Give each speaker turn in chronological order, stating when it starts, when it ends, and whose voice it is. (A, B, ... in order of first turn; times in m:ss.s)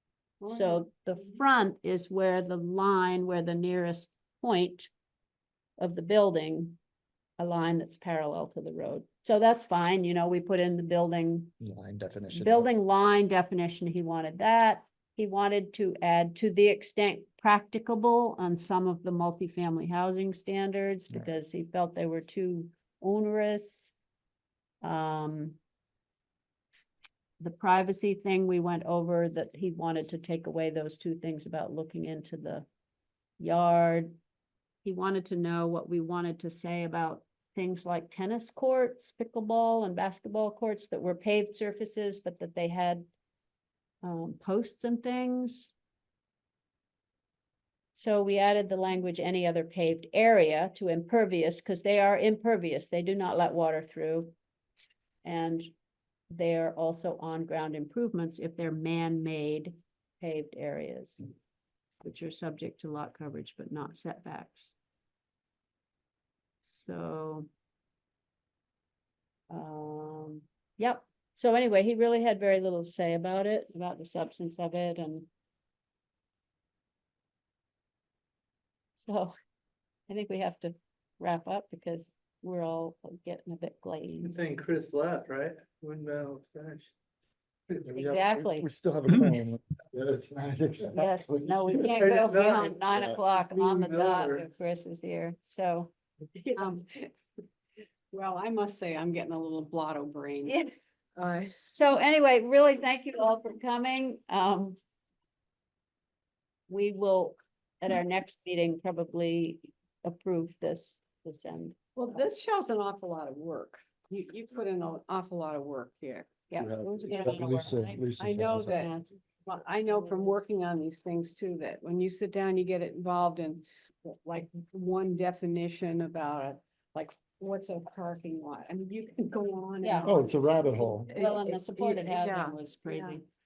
0:00.4-0:04.9 A
0:05.8-0:06.8 A
0:07.4-0:11.5 A
0:11.6-0:12.7 B
0:12.3-0:23.9 A
0:24.8-0:25.6 A
0:27.4-0:32.6 A
0:33.4-0:34.2 A
0:34.8-0:43.1 A
0:44.0-0:45.7 A
0:47.9-0:54.3 A
0:55.2-0:55.7 A
0:56.3-1:01.2 A
1:02.0-1:04.7 A
1:06.6-1:07.5 A
1:09.5-1:15.3 A
1:19.0-1:19.3 A
1:20.1-1:24.4 A
1:24.2-1:26.9 C
1:27.8-1:32.1 B
1:27.9-1:28.7 A
1:30.9-1:36.8 A
1:31.9-1:34.4 C
1:36.5-1:37.1 D
1:38.1-1:40.6 D
1:40.4-1:40.7 A
1:41.2-1:41.6 D
1:41.7-1:44.8 A
1:46.7-1:51.8 A
1:52.0-2:13.2 D
1:56.6-1:58.9 B
2:09.8-2:10.1 A
2:10.0-2:11.1 B
2:11.1-2:13.2 A